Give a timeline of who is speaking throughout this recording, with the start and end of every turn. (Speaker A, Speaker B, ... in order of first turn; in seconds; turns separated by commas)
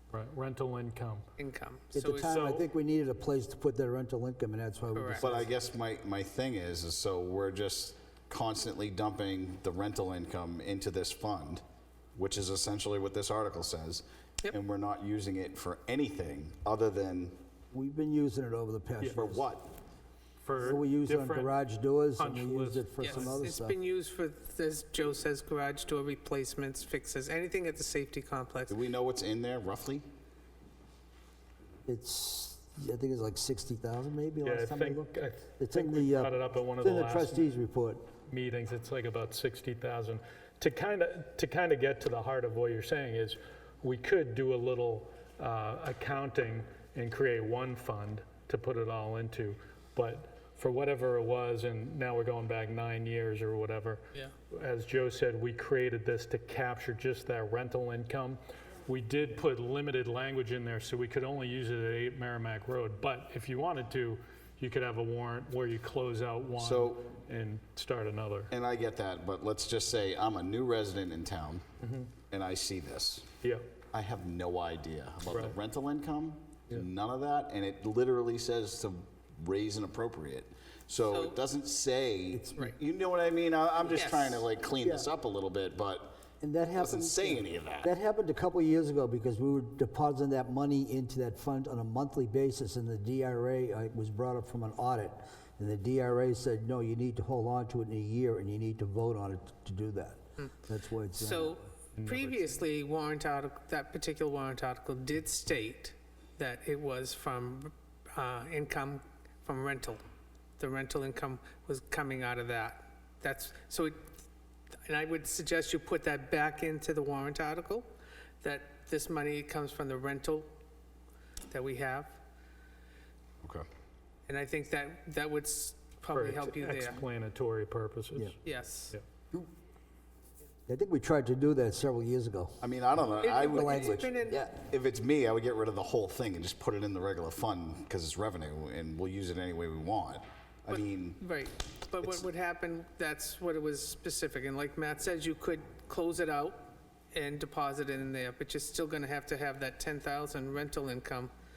Speaker A: 0.1-1.3, Speaker B: 1.4-2.6, Speaker C: 1.9-5.5, Speaker A: 2.3-2.6, Speaker B: 4.9-5.3, Speaker D: 5.2-11.6, Speaker D: 12.1-17.4, Speaker C: 17.7-19.5, Speaker D: 19.1-19.7, Speaker A: 20.4-21.5, Speaker C: 20.6-23.8, Speaker A: 22.2-23.3, Speaker B: 23.0-28.8, Speaker D: 28.7-30.1, Speaker C: 31.9-38.1, Speaker A: 34.4-37.5, Speaker A: 38.3-68.5, Speaker D: 66.6-67.0, Speaker D: 68.5-71.6, Speaker A: 71.8-72.1, Speaker D: 72.3-73.3, Speaker A: 73.4-73.7, Speaker D: 73.9-86.2, Speaker A: 75.2-75.6, Speaker B: 81.0-81.4, Speaker B: 83.9-84.5, Speaker C: 84.8-85.1, Speaker C: 86.4-101.7, Speaker D: 86.8-87.9, Speaker B: 101.1-110.0, Speaker A: 101.9-102.6, Speaker B: 110.6-114.2, Speaker B: 114.8-117.9, Speaker B: 118.4-120.5, Speaker B: 121.5-122.2, Speaker D: 123.4-123.7, Speaker B: 124.3-127.0, Speaker A: 126.1-128.4, Speaker B: 128.4-128.9, Speaker C: 130.7-132.7, Speaker D: 132.6-134.1, Speaker B: 133.2-134.4, Speaker C: 133.4-134.6, Speaker D: 134.6-141.2, Speaker B: 140.7-151.3